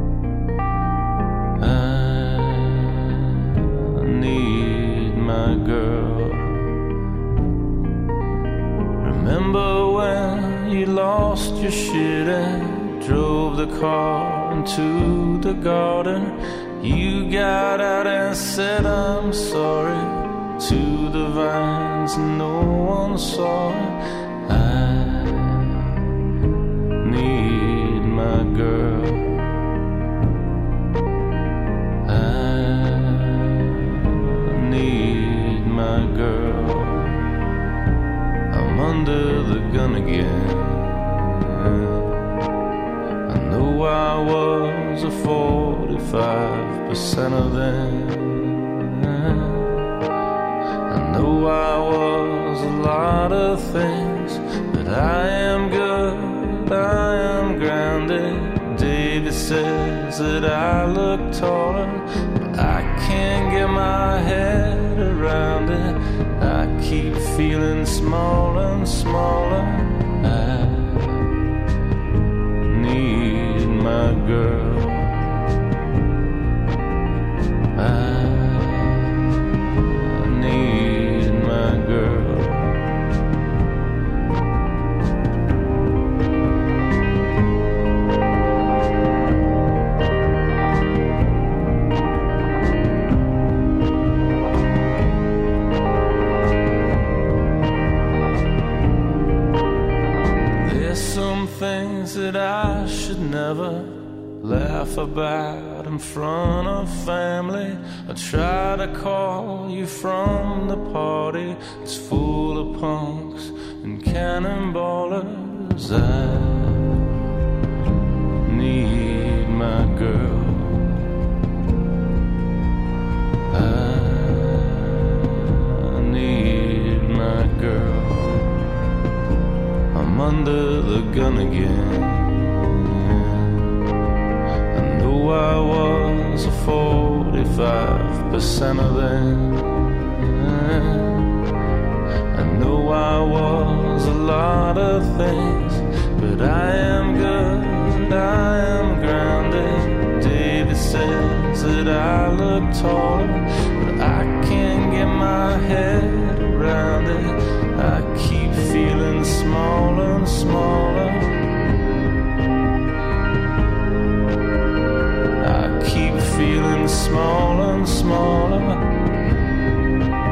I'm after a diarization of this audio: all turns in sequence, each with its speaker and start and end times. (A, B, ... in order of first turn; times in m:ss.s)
0:01.6-0:06.7 A
0:09.0-0:25.8 A
0:27.0-0:29.5 A
0:32.0-0:37.2 A
0:38.5-0:42.1 A
0:43.3-0:49.8 A
0:50.9-1:11.3 A
1:12.6-1:15.4 A
1:17.7-1:23.0 A
1:40.6-1:57.0 A
1:58.4-2:01.1 A
2:03.5-2:08.7 A
2:09.9-2:13.7 A
2:14.7-2:21.4 A
2:22.3-2:41.3 A
2:45.4-2:48.8 A